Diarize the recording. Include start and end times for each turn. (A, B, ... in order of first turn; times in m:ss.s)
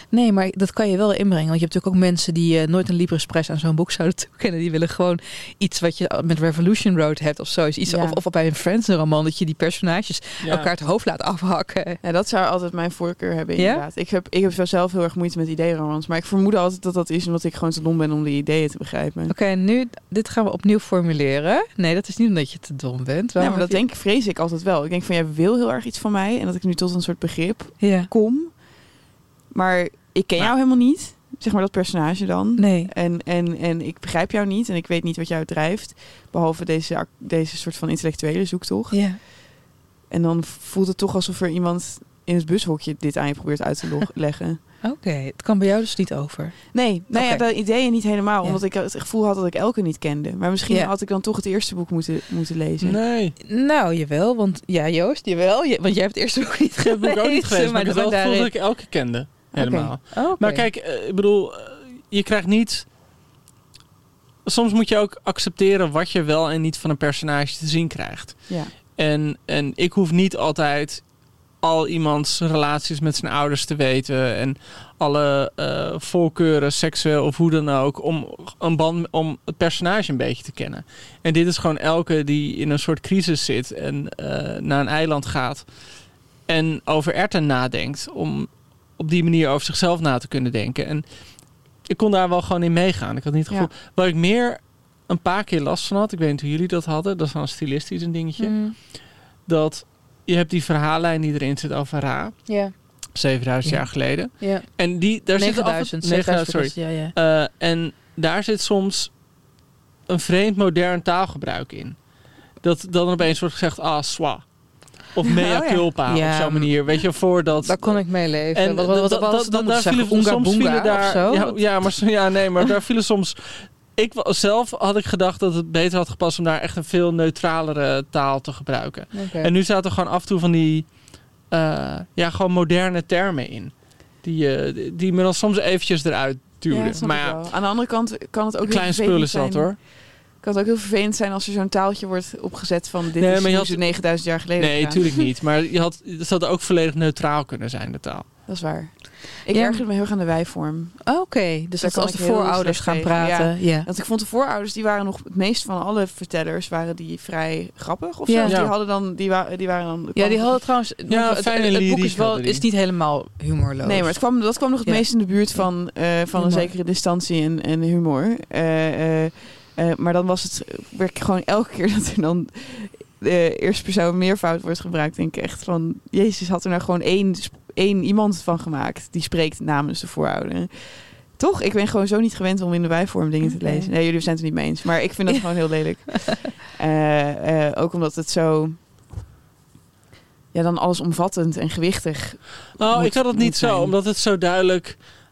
0:00.1-0:12.0 A
0:07.9-0:08.2 B
0:10.4-0:10.7 C
0:12.0-0:19.3 B
0:13.6-0:13.9 A
0:19.3-0:23.8 A
0:23.4-0:39.5 B
0:27.8-0:28.1 A
0:32.6-0:32.9 A
0:38.9-0:39.2 A
0:40.1-0:44.6 B
0:44.8-0:48.6 A
0:46.7-0:53.0 B
0:52.8-0:53.4 C
0:53.4-0:58.5 A
0:56.8-1:02.9 C
0:59.5-1:00.0 B
1:00.1-1:00.7 A
1:04.4-1:49.1 C
1:08.5-1:08.7 B
1:38.4-1:38.8 A
1:42.5-1:42.7 A
1:43.6-1:47.1 A
1:50.1-1:52.0 C
1:52.6-2:17.4 C
1:55.6-1:56.8 A
1:57.6-2:02.1 A
2:09.1-2:09.5 A
2:16.7-2:25.0 B
2:18.6-2:19.8 C
2:23.2-2:28.3 C
2:28.5-2:31.1 B
2:29.5-2:29.8 A
2:31.0-2:33.9 A
2:31.8-2:40.6 B
2:38.3-2:38.6 A
2:38.5-2:38.7 C
2:40.2-2:45.7 A
2:41.1-2:42.6 C
2:43.8-3:08.8 B
2:46.3-2:46.7 A
3:03.5-3:03.9 A
3:10.5-3:13.5 B
3:12.8-3:15.0 C
3:13.4-3:13.9 A